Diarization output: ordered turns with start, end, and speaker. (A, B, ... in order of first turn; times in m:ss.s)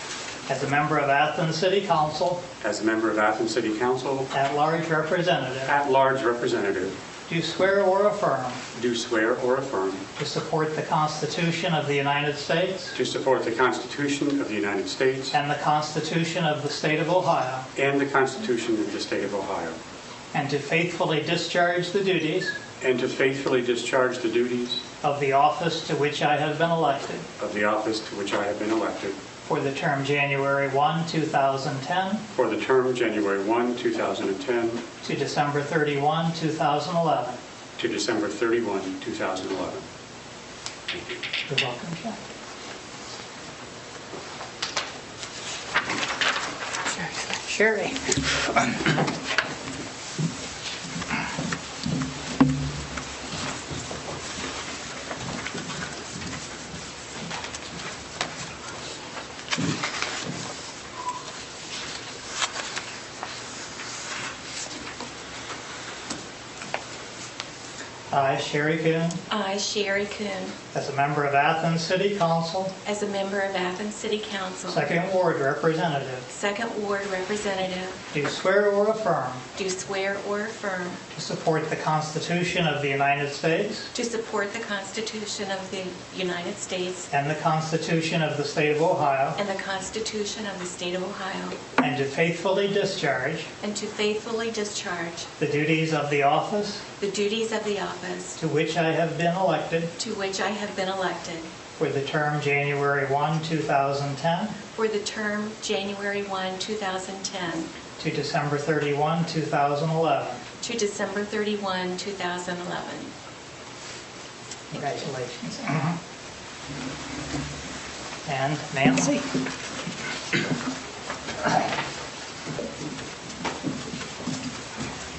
0:00.5-0:02.4 A
0:02.6-0:04.3 B
0:04.3-0:05.7 A
0:05.7-0:06.9 B
0:07.3-0:08.6 A
0:08.7-0:10.0 B
0:10.2-0:12.9 A
0:12.9-0:15.3 B
0:15.3-0:17.6 A
0:17.8-0:19.8 B
0:20.3-0:22.5 A
0:22.8-0:24.8 B
0:25.0-0:27.2 A
0:27.4-0:29.2 B
0:29.4-0:32.2 A
0:32.3-0:34.8 B
0:35.0-0:37.4 A
0:37.8-0:39.8 B
0:41.5-0:42.2 A
0:47.0-0:49.0 A
1:08.1-1:09.2 A
1:09.3-1:10.5 C
1:10.7-1:12.7 A
1:12.8-1:15.0 C
1:14.7-1:16.3 A
1:16.3-1:18.0 C
1:18.1-1:19.4 A
1:19.6-1:21.0 C
1:21.1-1:23.9 A
1:23.9-1:27.0 C
1:27.1-1:29.4 A
1:29.4-1:31.6 C
1:31.8-1:33.5 A
1:33.6-1:35.2 C
1:35.4-1:36.8 A
1:37.0-1:38.3 C
1:38.4-1:39.9 A
1:40.0-1:41.5 C
1:41.8-1:44.6 A
1:44.8-1:47.7 C
1:48.0-1:50.4 A
1:50.6-1:53.1 C
1:54.7-1:56.0 A
1:58.2-1:59.3 A